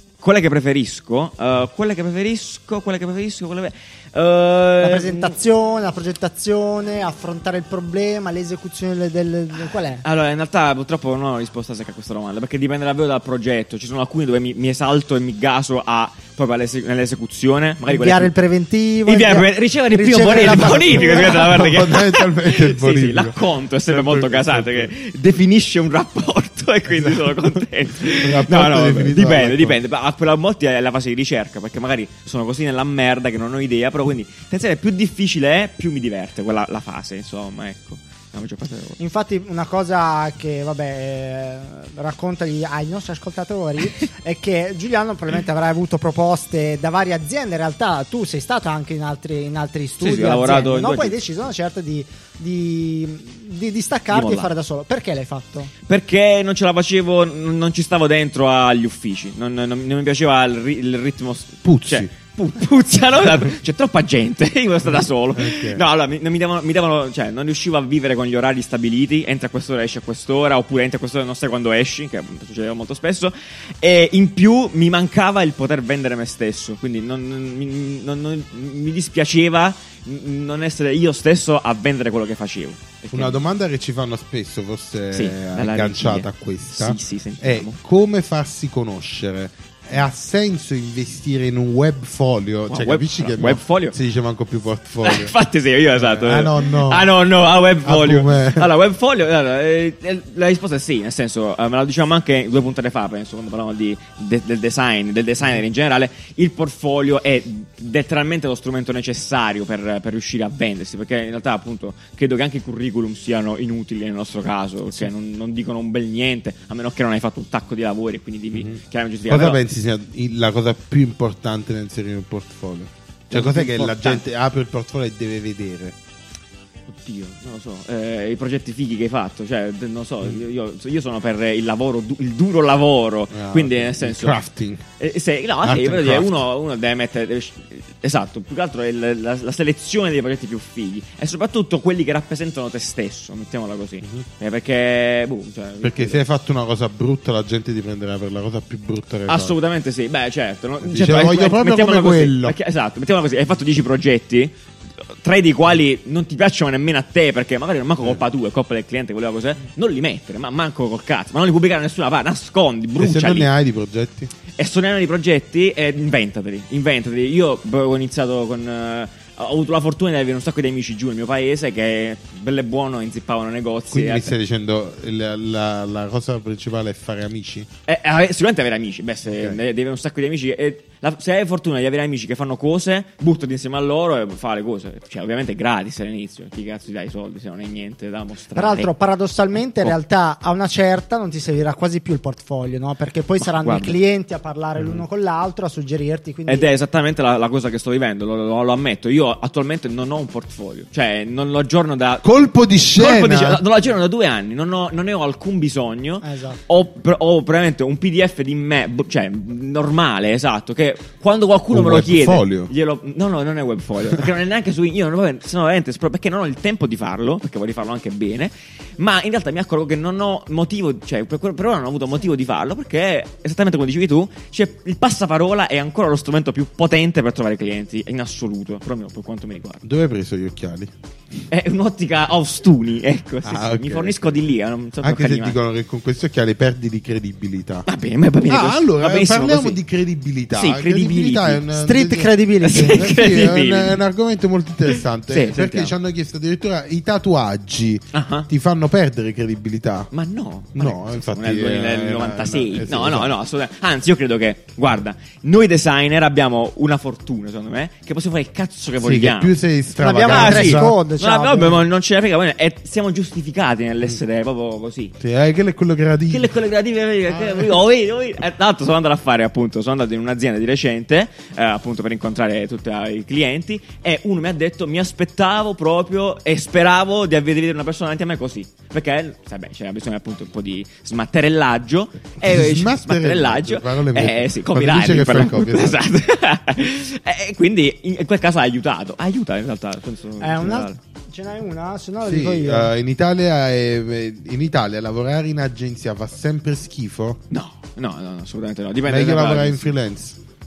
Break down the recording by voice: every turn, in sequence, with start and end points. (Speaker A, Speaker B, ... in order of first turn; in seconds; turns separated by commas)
Speaker A: 0.2-5.3, Speaker B: 4.8-10.0, Speaker A: 9.7-18.3, Speaker B: 17.9-21.5, Speaker A: 19.1-39.0, Speaker C: 20.4-24.9, Speaker C: 26.9-29.8, Speaker B: 39.0-55.7, Speaker A: 50.0-51.2, Speaker A: 54.1-54.5, Speaker A: 55.9-83.3, Speaker C: 61.6-62.1, Speaker C: 64.9-65.8, Speaker C: 83.1-95.3, Speaker A: 85.1-87.8, Speaker A: 92.7-94.0, Speaker A: 95.0-119.6, Speaker C: 95.9-97.1, Speaker C: 97.8-98.7, Speaker C: 118.5-126.0, Speaker A: 123.3-124.2, Speaker A: 126.9-134.4, Speaker C: 133.3-134.8, Speaker A: 135.0-146.2, Speaker C: 135.6-136.4, Speaker C: 145.8-149.6, Speaker A: 149.3-154.6, Speaker C: 150.8-152.6, Speaker A: 155.1-163.5, Speaker C: 163.0-164.3, Speaker A: 164.6-174.3, Speaker C: 173.9-177.7, Speaker A: 177.9-188.9, Speaker B: 188.6-196.7, Speaker A: 189.6-189.9, Speaker A: 193.4-194.0, Speaker C: 194.8-195.0, Speaker A: 196.5-202.3, Speaker C: 202.2-203.6, Speaker A: 203.0-229.8, Speaker B: 206.2-206.6, Speaker C: 211.7-212.7, Speaker C: 229.8-230.9, Speaker A: 231.5-235.6, Speaker C: 233.4-234.4, Speaker C: 235.0-237.9, Speaker A: 237.9-239.8, Speaker C: 238.5-250.1, Speaker A: 240.5-241.7, Speaker B: 241.8-243.2, Speaker A: 242.6-244.0, Speaker A: 245.3-245.9, Speaker A: 248.1-248.5, Speaker A: 250.1-259.6, Speaker C: 250.8-253.3, Speaker C: 259.0-261.0, Speaker B: 260.0-261.8, Speaker A: 260.2-265.1, Speaker C: 265.2-266.6, Speaker A: 266.3-291.0, Speaker C: 267.3-267.8, Speaker C: 282.4-286.0, Speaker B: 290.4-292.9, Speaker C: 292.2-297.4, Speaker A: 297.5-299.9, Speaker C: 299.1-300.4